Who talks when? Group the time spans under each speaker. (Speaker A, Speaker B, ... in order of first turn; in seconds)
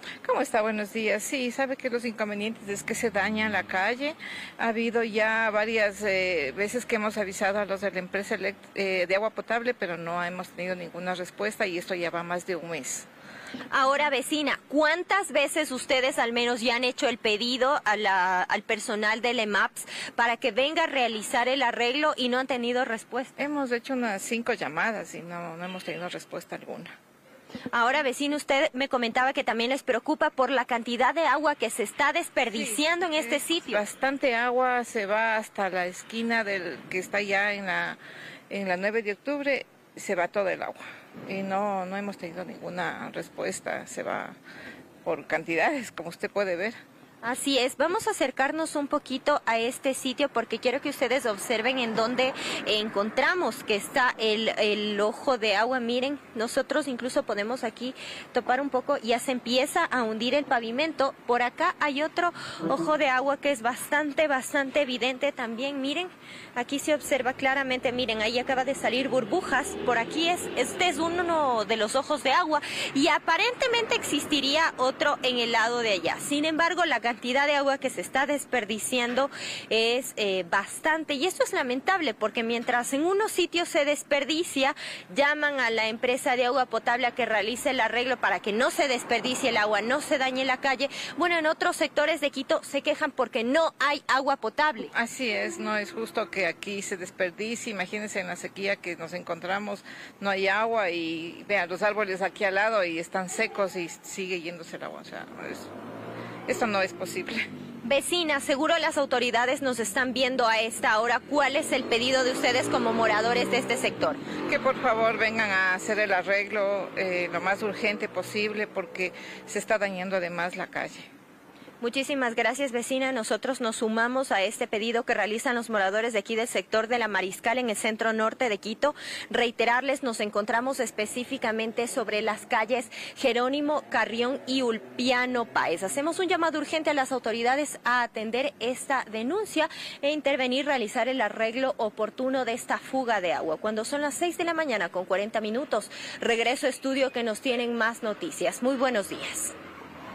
Speaker A: 0.2-13.1, 23.4-26.9, 32.5-38.0, 38.5-44.4, 45.0-46.8, 94.9-105.7, 106.5-107.5, 114.5-121.1
Speaker B: 13.7-23.4, 27.7-33.8, 47.2-94.9, 107.8-114.2, 121.8-149.5